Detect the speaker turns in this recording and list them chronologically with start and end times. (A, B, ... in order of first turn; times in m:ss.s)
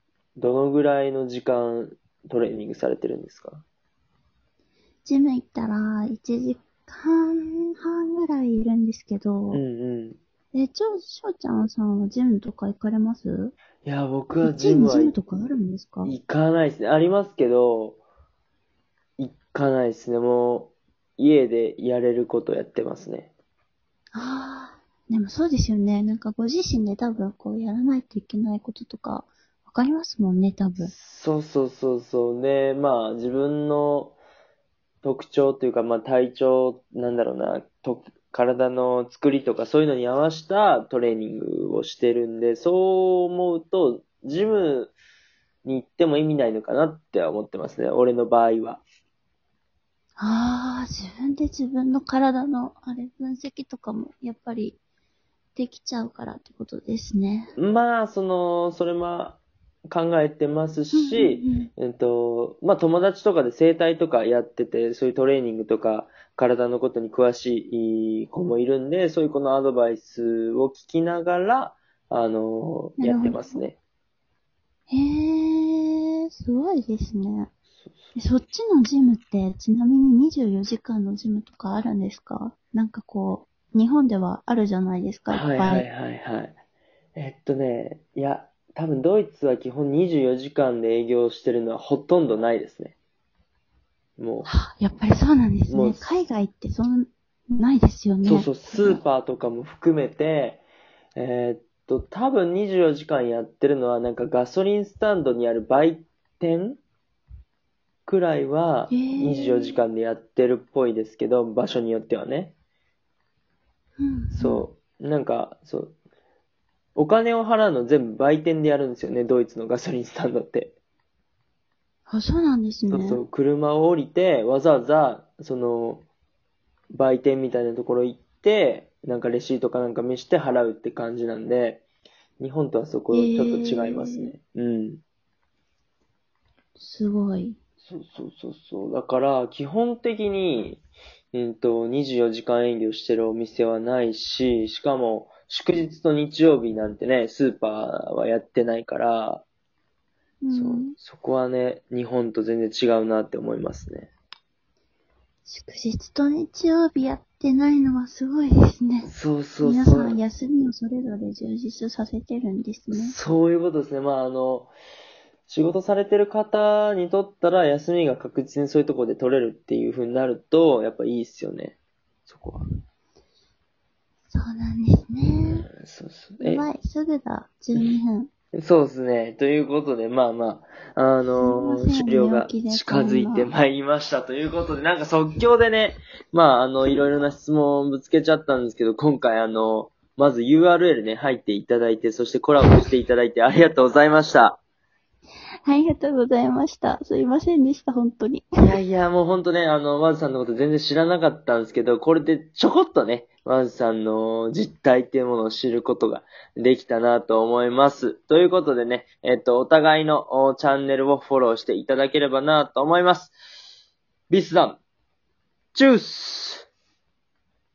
0:00.4-0:03.6 A
0:05.0-0:09.6 B
0:09.5-0:10.2 A
0:10.5-0:13.5 B
0:13.8-0:15.1 A
0:14.4-0:16.1 B
0:16.0-0:18.0 A
0:19.2-0:23.3 A
0:24.1-0:30.9 B
0:30.8-0:34.2 A
0:35.0-0:44.9 A
0:45.6-0:48.8 A
0:50.2-0:54.8 B
0:55.6-0:57.5 B
0:57.6-1:13.8 A
1:00.9-1:01.7 B
1:13.0-1:13.6 B
1:14.9-1:17.5 B
1:18.1-1:25.9 B
1:25.3-1:26.6 A
1:27.2-1:32.9 A
1:34.2-1:34.5 A
1:34.4-1:39.0 B
1:35.7-1:36.1 A
1:38.2-1:40.6 A
1:41.2-1:46.8 A
1:48.0-1:52.5 A
1:48.9-1:49.8 B
1:54.0-1:54.7 B
1:54.3-1:55.9 A
1:57.0-2:00.7 A
2:02.1-2:03.2 B
2:02.9-2:06.0 A
2:06.9-2:11.8 A
2:12.4-2:15.0 A
2:13.1-2:14.3 B
2:16.8-2:17.6 B
2:17.8-2:20.8 A
2:21.3-2:29.4 A
2:30.4-2:30.9 B
2:30.5-2:34.1 A
2:35.4-2:43.2 B
2:39.0-2:40.2 A
2:42.9-2:44.7 A
2:45.5-2:51.8 A
2:52.3-2:52.6 A
2:54.3-2:55.7 B
2:55.7-2:56.7 A
2:56.4-2:58.3 B
2:58.5-3:14.6 A
3:01.4-3:03.5 B
3:15.6-3:18.8 B
3:18.6-3:33.3 A
3:34.3-3:34.8 A
3:35.7-3:36.7 A